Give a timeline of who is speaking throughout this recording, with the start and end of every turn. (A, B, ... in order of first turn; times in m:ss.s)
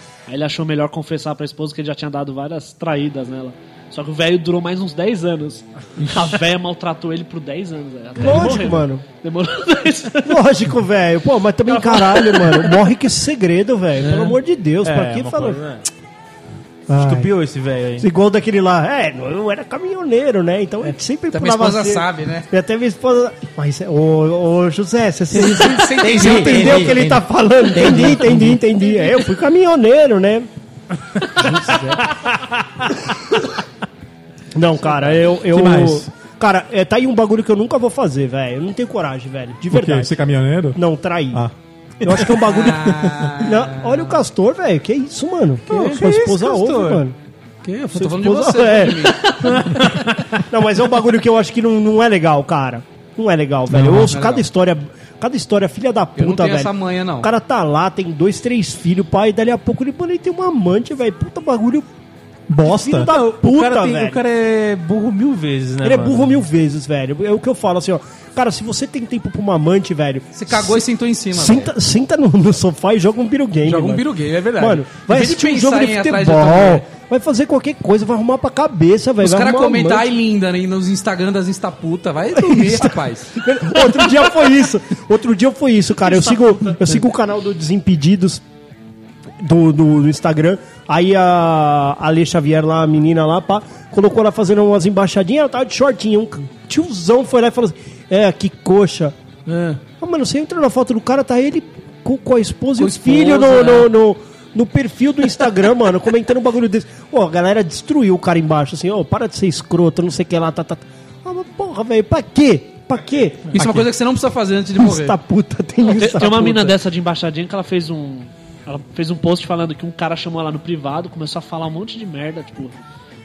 0:00.3-0:10.4 A
0:06.0-0:06.4 B
0:08.2-0:09.0 C
0:10.2-0:15.6 C
0:11.7-0:12.7 A
0:14.0-0:14.4 B
0:14.8-0:15.8 D
0:16.9-0:17.3 C
0:16.9-0:18.1 D
0:18.0-0:30.5 C
0:21.3-0:22.5 B
0:25.3-0:27.0 B
0:25.4-0:28.6 E
0:31.4-0:32.0 C
0:31.5-0:32.0 B
0:34.5-0:40.1 C
0:35.4-0:36.1 E
0:39.7-0:40.8 E
0:40.8-0:41.4 C
0:41.3-0:42.4 E
0:42.0-0:47.2 C
0:42.3-0:44.2 B
0:43.0-0:43.4 E
0:45.7-0:46.0 B
0:45.8-0:47.0 D
0:47.6-0:49.6 B
0:47.9-0:49.8 C
0:49.4-0:50.0 D
0:50.4-1:01.9 C
0:53.7-0:54.1 E
0:54.1-0:54.5 B
0:56.2-0:57.3 B
1:02.5-1:03.1 E
1:02.6-1:04.2 C
1:03.0-1:06.4 D
1:05.8-1:20.1 C
1:10.3-1:11.7 B
1:13.6-1:16.9 B
1:19.2-1:23.4 B
1:22.3-1:28.4 C
1:29.4-1:39.2 C
1:39.5-1:39.8 B
1:40.0-1:53.6 C
1:42.8-1:43.9 B
1:53.5-1:55.2 B
1:53.6-1:53.9 E
1:54.8-1:56.7 C
1:55.9-2:02.8 A
1:56.1-1:56.7 B